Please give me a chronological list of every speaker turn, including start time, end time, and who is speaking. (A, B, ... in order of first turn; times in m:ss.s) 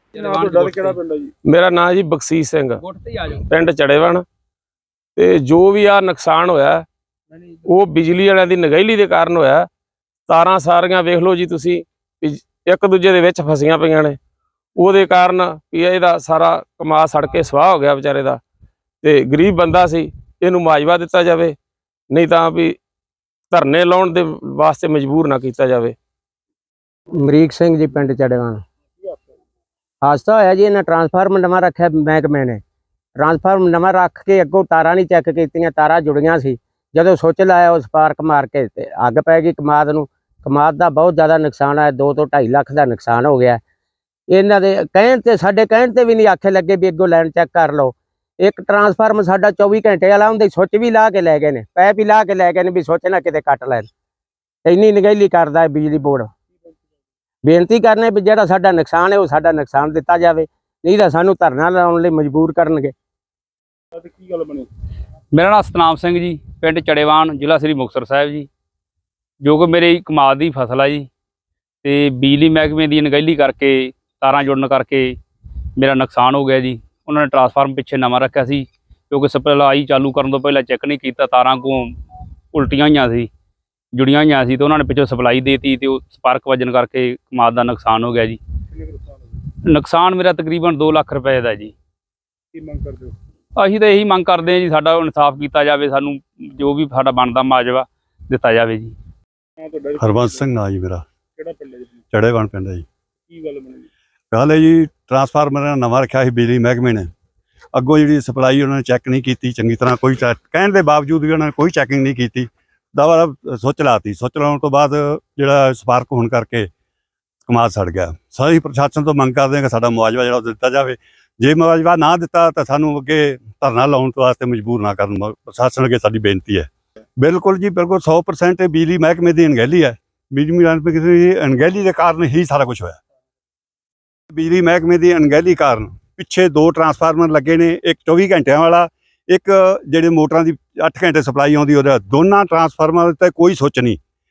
0:00.2-0:01.0 A
0:00.2-0:01.3 B
0:01.5-0:02.8 C
0:02.8-0:03.4 A
0:03.4-0:04.2 C
0:05.2-0:06.8 C
0:07.6-0:09.6 C
0:10.3-0:14.2 C
0:14.8-0:18.4 C
0:19.0-0:21.5 C
0:22.1-0:22.8 C
0:23.5-0:25.9 C
0:27.2-0:28.5 D
0:30.0-0:32.6 D
0:33.2-0:43.6 D
0:44.3-0:47.9 D
0:48.4-0:53.8 D
0:54.6-0:56.2 D
0:57.5-1:02.9 D
1:04.0-1:04.7 B
1:05.3-1:08.5 A
1:09.4-1:11.1 A
1:11.8-1:15.1 A
1:15.8-1:21.9 A
1:22.5-1:23.3 A
1:23.9-1:28.4 A
1:29.6-1:31.7 A
1:32.5-1:33.1 B
1:33.6-1:38.9 A
1:39.6-1:40.5 B
1:40.0-1:41.0 E
1:41.4-1:42.0 B
1:42.1-1:42.9 E
1:43.3-1:43.9 B
1:44.3-1:47.1 E
1:47.7-1:56.7 E
1:57.5-2:13.0 E
2:14.3-2:24.0 E